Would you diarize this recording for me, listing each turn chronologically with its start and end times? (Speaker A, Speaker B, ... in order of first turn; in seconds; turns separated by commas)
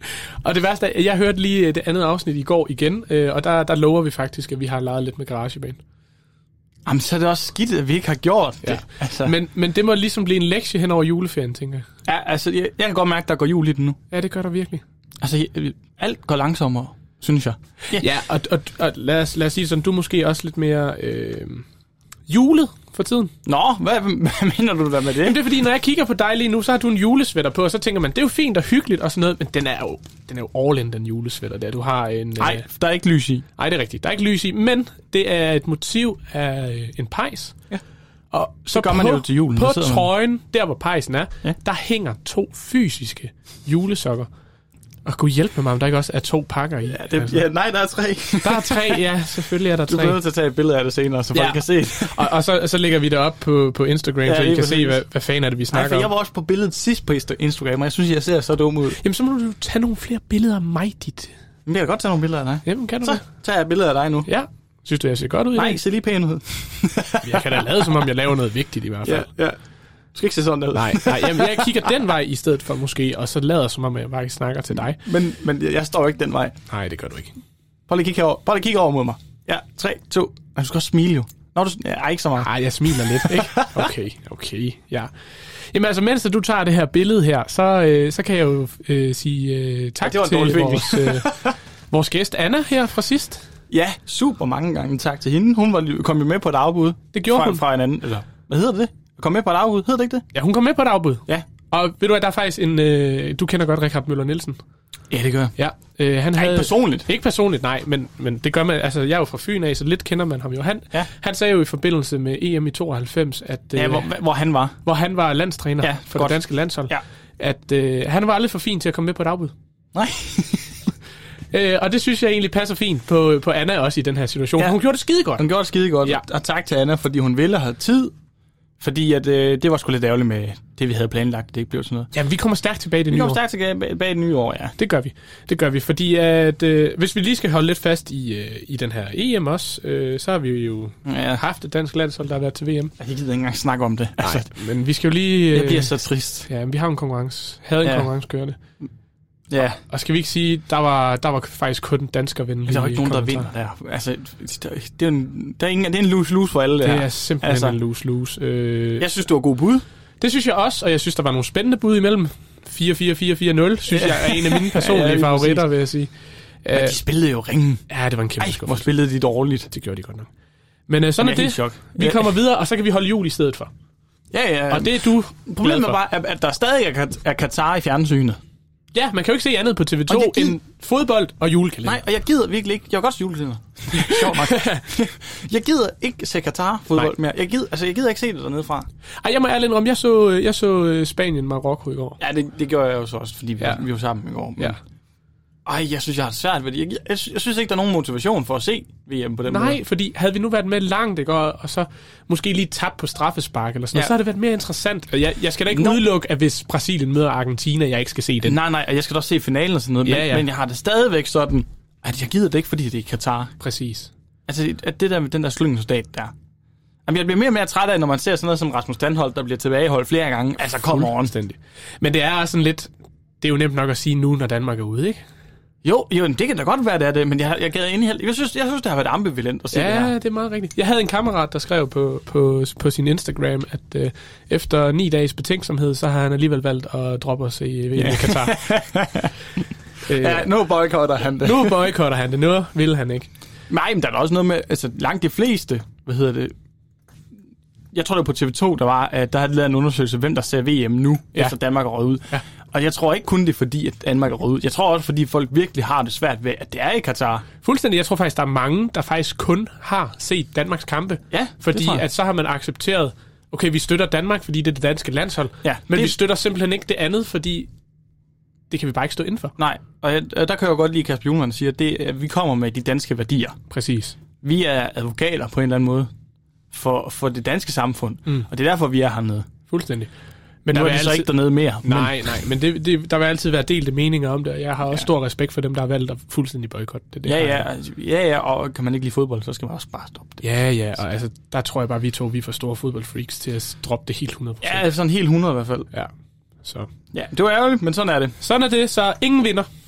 Speaker A: 0.4-5.8, Speaker B: 6.8-9.3, Speaker A: 8.6-11.9, Speaker B: 12.1-14.0, Speaker A: 14.1-14.8, Speaker B: 15.2-18.0, Speaker A: 17.9-21.6, Speaker A: 22.3-23.3, Speaker B: 23.4-25.4, Speaker A: 25.2-32.7, Speaker B: 32.4-33.5, Speaker A: 33.6-37.6, Speaker A: 38.3-44.3, Speaker B: 38.7-40.1, Speaker A: 45.0-47.4, Speaker B: 46.9-49.0, Speaker A: 48.4-50.2, Speaker B: 49.9-52.3, Speaker A: 51.3-56.1, Speaker B: 54.2-55.0, Speaker B: 55.7-59.0, Speaker A: 59.0-61.3, Speaker B: 61.7-64.3, Speaker A: 62.7-63.2, Speaker A: 64.3-65.8, Speaker B: 65.5-68.1, Speaker A: 67.2-69.3, Speaker B: 69.0-69.6, Speaker B: 70.2-71.9, Speaker A: 70.8-75.0, Speaker B: 74.7-76.6, Speaker A: 76.7-77.4, Speaker B: 77.9-83.9, Speaker A: 82.4-85.1, Speaker A: 85.7-93.5, Speaker B: 90.0-91.5, Speaker B: 93.7-100.3, Speaker A: 97.1-97.6, Speaker A: 100.3-104.6, Speaker B: 105.1-105.5, Speaker A: 105.6-114.2, Speaker B: 106.3-107.1, Speaker B: 113.8-114.8, Speaker A: 114.8-119.5, Speaker B: 115.8-117.0, Speaker B: 119.9-120.9, Speaker A: 121.5-125.5, Speaker B: 125.4-128.1, Speaker B: 128.8-132.1, Speaker A: 132.1-133.4, Speaker B: 133.1-134.8, Speaker A: 134.8-142.9, Speaker B: 141.1-141.4, Speaker B: 143.0-144.5, Speaker A: 144.2-145.9, Speaker B: 145.5-146.5, Speaker A: 146.5-148.6, Speaker B: 147.8-148.1, Speaker B: 149.5-149.8, Speaker A: 149.9-153.5, Speaker B: 152.7-157.8, Speaker A: 156.8-159.1, Speaker B: 159.0-159.8, Speaker A: 160.2-166.1, Speaker B: 163.9-165.6, Speaker A: 166.6-167.0, Speaker B: 166.7-167.8, Speaker A: 167.9-168.9, Speaker B: 168.4-169.7, Speaker A: 169.7-170.3, Speaker A: 170.9-173.7, Speaker B: 171.2-172.3, Speaker B: 174.3-178.4, Speaker A: 174.7-176.0, Speaker A: 178.9-182.0, Speaker B: 180.1-180.6, Speaker B: 181.8-188.9, Speaker A: 183.9-184.8, Speaker A: 189.2-192.2, Speaker B: 192.2-194.8, Speaker B: 195.7-199.8, Speaker A: 199.5-208.6, Speaker B: 205.7-206.0, Speaker B: 208.4-213.5, Speaker A: 210.0-210.4, Speaker A: 213.6-214.1, Speaker B: 214.5-216.3, Speaker B: 217.1-221.3, Speaker A: 220.9-225.2, Speaker B: 225.8-230.1, Speaker A: 229.7-238.6, Speaker B: 237.9-241.9, Speaker A: 240.1-240.6, Speaker A: 241.4-243.3, Speaker B: 243.7-246.5, Speaker B: 247.9-257.5, Speaker A: 257.6-267.7, Speaker B: 261.3-262.0, Speaker B: 265.6-266.1, Speaker A: 268.7-269.6, Speaker B: 269.6-273.6, Speaker A: 273.7-274.2, Speaker B: 274.4-276.1, Speaker B: 276.7-279.5, Speaker A: 279.7-280.1, Speaker A: 280.6-281.3, Speaker B: 280.7-282.3, Speaker A: 281.8-287.7, Speaker B: 287.3-290.4, Speaker A: 290.4-294.9, Speaker B: 294.6-295.9, Speaker A: 296.6-296.9, Speaker B: 297.1-298.4, Speaker A: 298.4-299.7